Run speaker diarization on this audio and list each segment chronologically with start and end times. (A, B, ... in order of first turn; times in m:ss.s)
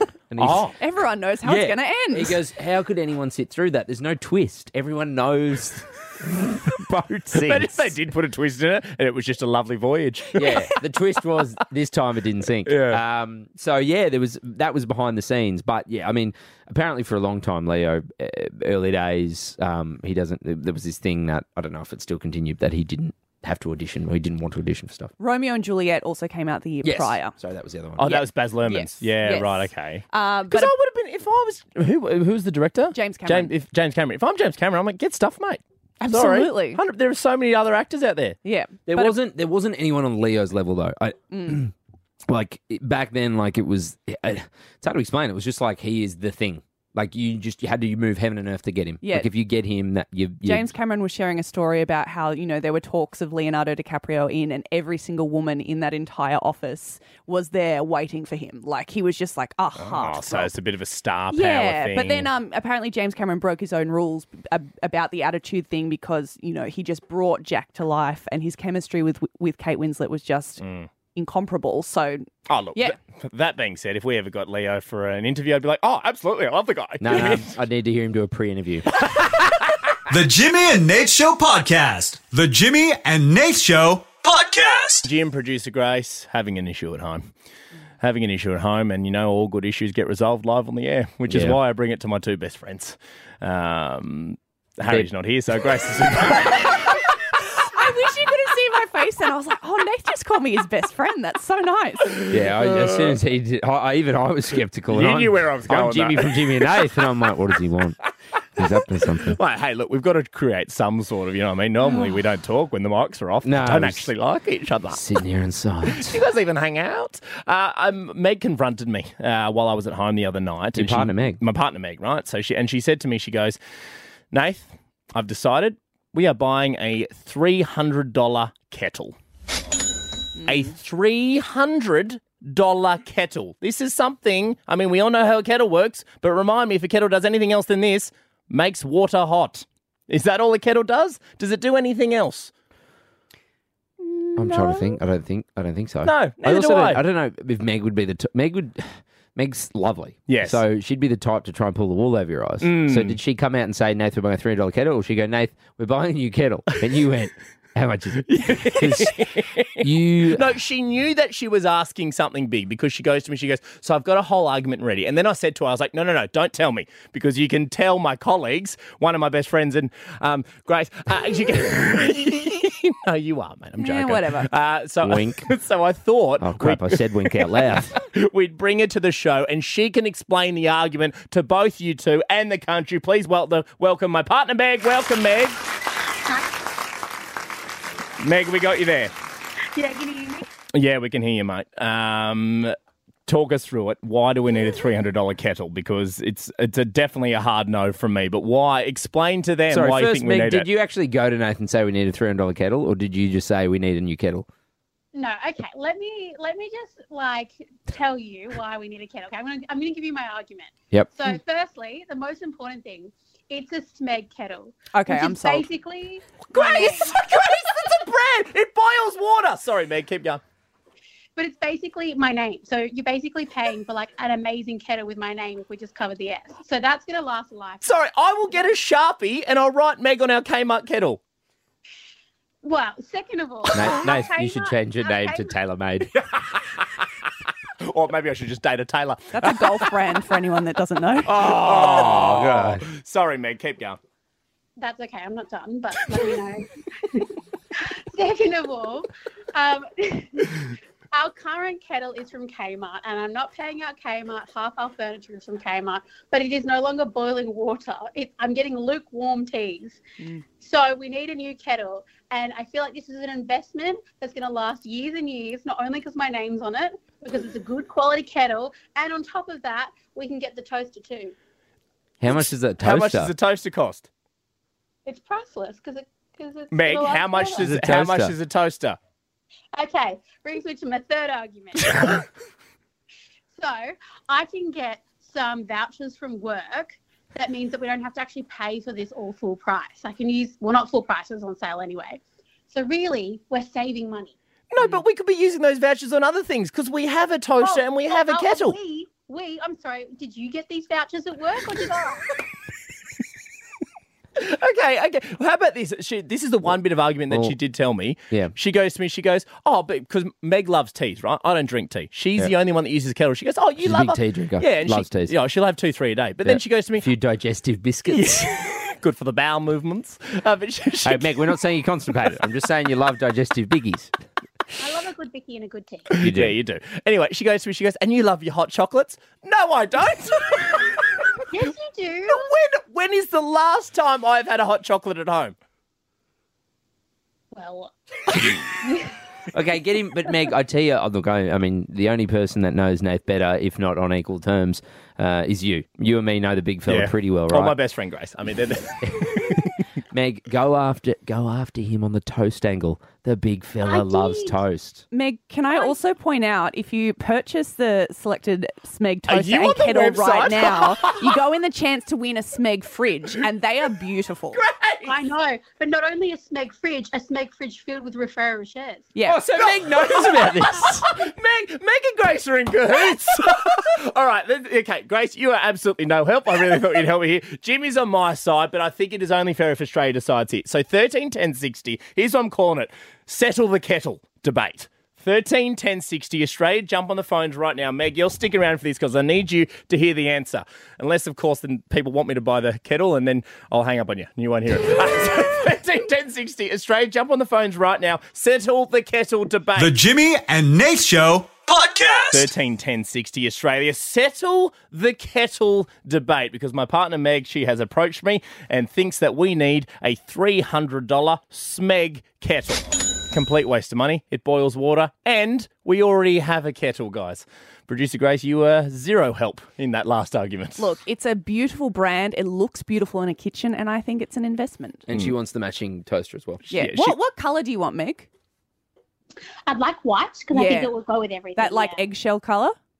0:00.3-0:00.7 A
0:00.4-0:00.8 B
0:00.8-0:02.4 C
0:01.4-0:07.9 A
0:07.3-0:10.6 B
0:10.4-0:25.1 A
0:12.6-0:13.0 B
0:25.2-0:27.3 C
0:26.8-0:28.2 A
0:28.0-0:38.4 B
0:28.0-0:30.7 C
0:32.9-0:33.5 C
0:36.0-0:36.8 C
0:38.4-0:39.1 C
0:38.9-0:41.7 A
0:41.3-0:41.6 C
0:42.3-0:50.7 A
0:49.0-0:49.3 C
0:50.4-1:00.5 C
0:59.8-1:02.3 B
1:01.3-1:10.6 C
1:10.6-1:10.9 B
1:11.1-1:13.0 C
1:12.5-1:17.5 B
1:17.0-1:18.9 A
1:20.1-1:25.1 D
1:25.1-1:27.3 B
1:28.0-1:36.8 B
1:31.3-1:31.6 A
1:37.6-1:42.2 C
1:42.2-1:43.2 B
1:42.3-1:48.0 A
1:44.9-1:46.8 B
1:48.6-1:49.4 A
1:49.1-1:55.0 B
1:53.4-1:54.1 A
1:54.9-1:56.2 A
1:55.9-2:03.6 B
2:00.8-2:01.4 A
2:04.3-2:09.1 B
2:10.5-2:22.5 B
2:24.4-2:39.2 A
2:26.0-2:27.0 B
2:30.3-2:30.6 B
2:32.6-2:33.2 B
2:38.3-3:05.6 B
2:39.8-2:40.6 A
2:53.8-2:54.5 C
2:55.0-2:55.5 A
2:56.4-2:57.9 A
3:08.2-3:09.1 B
3:09.8-3:10.5 E
3:10.7-3:12.8 B
3:13.3-3:20.7 B
3:19.7-3:24.5 A
3:25.1-3:37.1 E
3:30.9-3:31.2 A
3:34.9-3:35.6 C
3:36.5-3:40.4 B
3:41.4-3:47.9 E
3:47.8-3:51.2 B
3:52.6-3:55.5 E
3:53.7-3:56.1 A
3:57.8-3:59.7 B
3:59.3-4:01.4 C
4:01.3-4:04.0 B
4:01.3-4:02.8 A
4:04.8-4:07.3 E
4:07.8-4:20.0 E
4:20.6-4:31.3 E
4:32.2-4:33.3 A
4:32.3-4:34.1 B
4:35.1-4:37.7 E
4:36.7-4:39.0 B
4:37.6-4:38.4 A
4:39.7-4:42.2 E
4:43.5-4:54.4 E
4:54.7-4:58.8 B
4:57.6-5:02.3 E
5:04.4-5:17.1 B
5:07.3-5:07.6 A
5:13.8-5:15.3 A
5:16.4-5:18.5 A
5:18.1-5:21.4 B
5:21.0-5:24.1 A
5:24.8-5:26.1 E
5:26.1-5:31.0 B
5:26.1-5:26.6 A
5:31.5-5:32.5 E
5:32.3-5:35.6 B
5:37.5-5:39.1 E
5:39.5-5:47.8 A
5:46.9-5:49.6 B
5:49.0-5:55.0 A
5:53.8-5:54.6 E
5:55.1-6:04.6 C
5:59.3-6:01.2 B
6:04.6-6:05.1 B
6:05.0-6:09.1 E
6:09.1-6:09.4 C
6:09.2-6:11.0 A
6:09.6-6:39.9 B
6:39.8-6:42.5 D
6:42.3-7:00.9 B
7:00.8-7:05.1 C
7:05.1-7:06.7 A
7:06.7-7:07.1 B
7:06.7-7:08.3 C
7:09.7-7:12.0 E
7:10.5-7:10.9 C
7:11.6-7:12.8 C